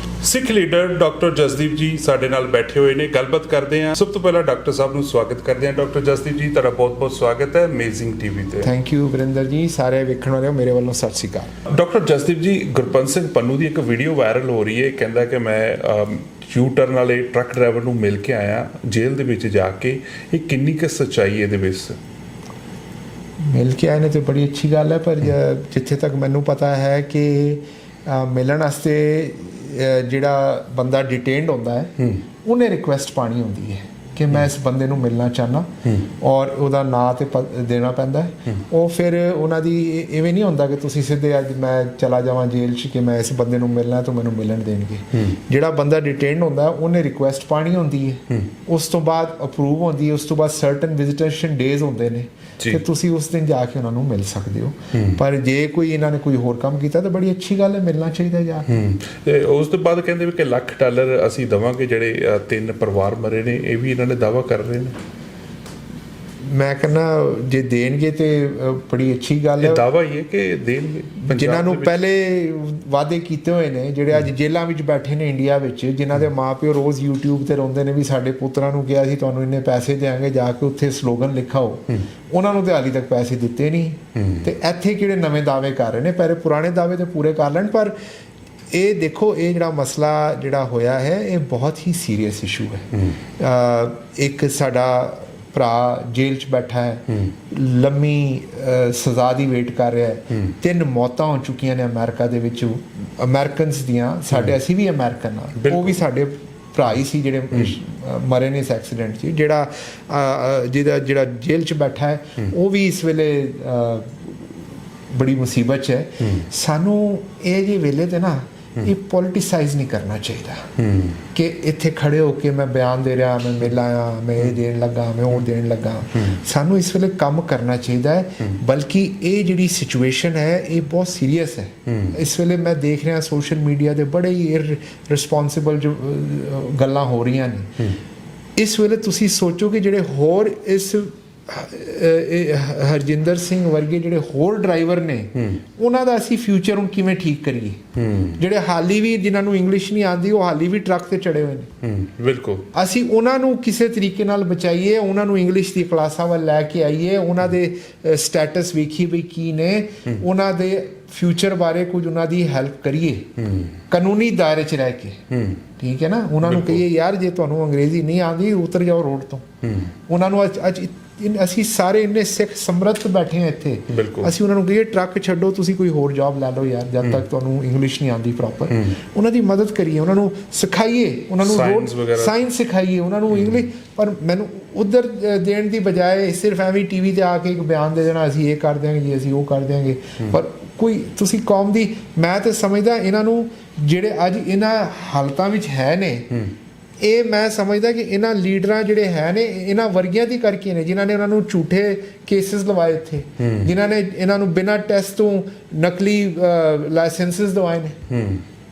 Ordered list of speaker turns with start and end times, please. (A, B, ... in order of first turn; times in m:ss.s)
0:00.2-0:08.7 A
0:08.6-0:11.6 B
0:11.7-0:22.0 A
0:23.4-0:58.7 B
0:54.9-0:55.2 A
0:58.7-1:05.0 A
1:06.5-1:09.8 B
1:09.6-1:11.9 A
1:11.2-1:28.0 B
1:28.7-1:54.5 B
1:45.6-1:45.9 A
1:55.1-2:00.7 B
2:00.8-2:01.2 A
2:01.3-2:17.9 B
2:18.6-2:27.8 B
2:28.0-2:28.4 A
2:28.4-2:31.7 B
2:31.8-2:32.7 A
2:32.7-2:43.3 B
2:43.4-2:43.7 A
2:43.9-2:45.2 B
2:45.3-2:45.6 A
2:45.8-2:49.4 B
2:46.4-2:46.8 A
2:49.6-2:49.9 A
2:50.1-3:16.4 B
2:53.9-2:54.4 A
3:01.4-3:02.4 A
3:17.0-3:28.0 B
3:23.4-3:23.7 A
3:28.1-3:28.4 A